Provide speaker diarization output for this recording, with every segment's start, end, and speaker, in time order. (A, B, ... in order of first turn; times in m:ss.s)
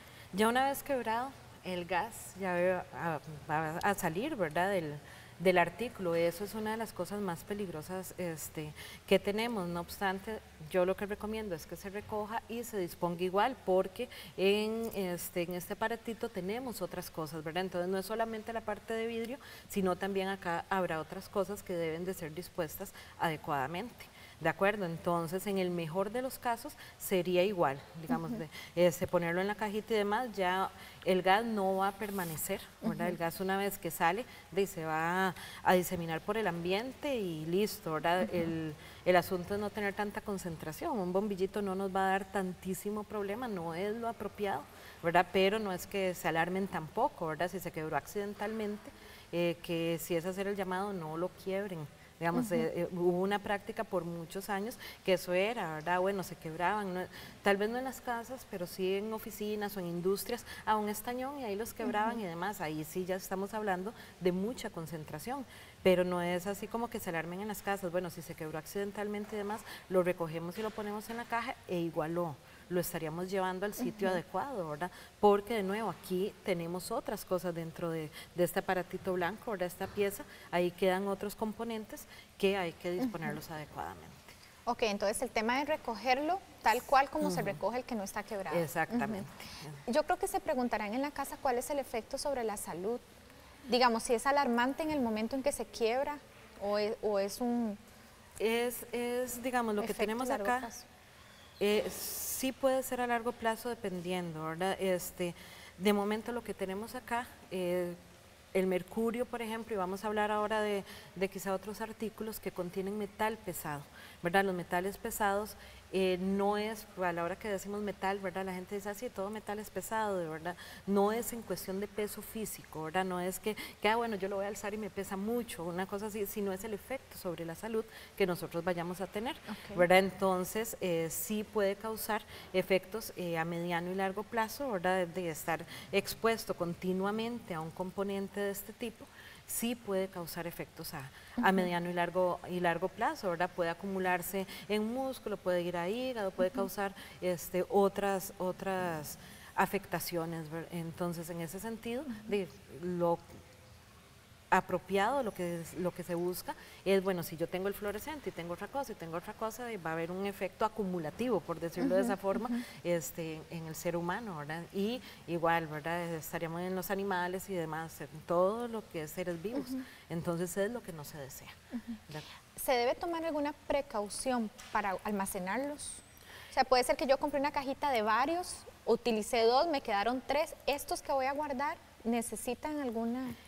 0:00.3-1:24.3 A
1:24.7-1:29.2 B
1:27.2-1:27.6 A
1:28.5-1:29.7 A
1:29.9-1:33.0 B
1:33.7-1:37.8 B
1:38.4-1:40.7 A
1:39.8-1:40.8 B
1:41.6-1:48.0 A
1:48.5-2:33.2 A
2:09.5-2:09.8 B
2:34.5-2:51.6 A
2:52.6-3:03.4 B